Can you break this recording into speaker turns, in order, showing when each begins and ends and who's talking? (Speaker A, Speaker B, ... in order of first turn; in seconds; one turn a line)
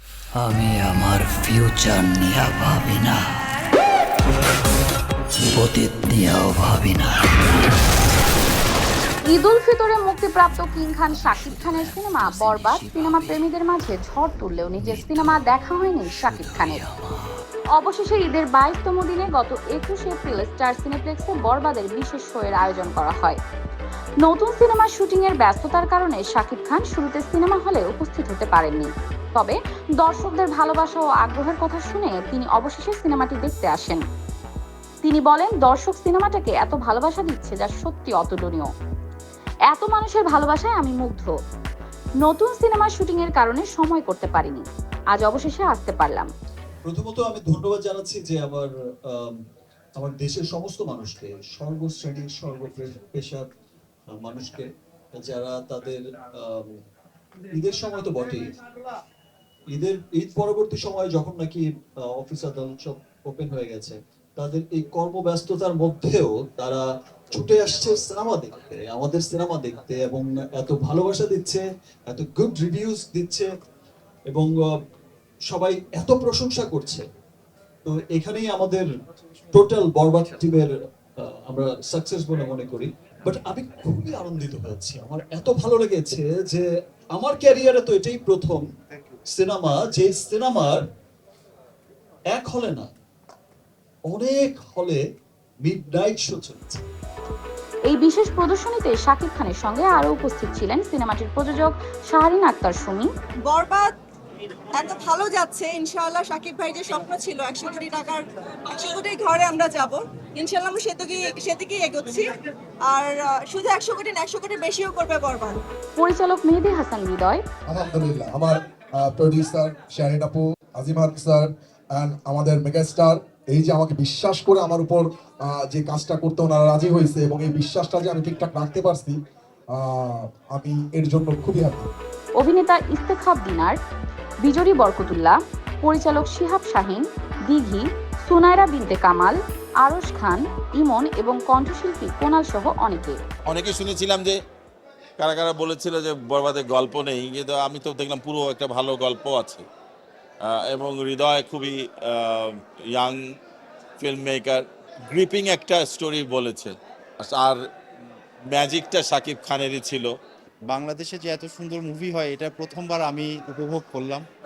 Speaker A: 0.4-3.2
Speaker A: 5.5-7.3
Speaker B: 9.3-16.8
Speaker A: 11.1-13.4
Speaker A: 14.8-15.4
Speaker A: 16.0-17.2
Speaker B: 17.8-23.4
Speaker B: 24.2-34.0
Speaker B: 35.0-38.7
Speaker B: 39.7-41.3
Speaker B: 42.2-46.3
Speaker C: 46.9-49.3
Speaker C: 50.0-53.5
Speaker C: 54.1-54.7
Speaker C: 55.2-56.7
Speaker C: 57.5-58.6
Speaker C: 59.7-61.6
Speaker C: 62.2-73.5
Speaker C: 75.5-77.0
Speaker C: 77.8-78.9
Speaker C: 79.5-80.7
Speaker C: 81.2-88.7
Speaker C: 89.3-90.8
Speaker C: 92.3-92.9
Speaker C: 94.1-95.0
Speaker C: 95.6-96.8
Speaker B: 97.9-103.1
Speaker D: 103.5-104.0
Speaker D: 104.7-112.3
Speaker D: 112.9-115.6
Speaker B: 116.0-117.4
Speaker E: 117.7-129.2
Speaker E: 129.8-131.9
Speaker B: 132.4-133.8
Speaker B: 134.4-143.2
Speaker F: 143.5-144.3
Speaker F: 145.2-149.7
Speaker F: 150.5-153.2
Speaker F: 154.0-157.6
Speaker F: 158.5-160.1
Speaker G: 160.7-164.2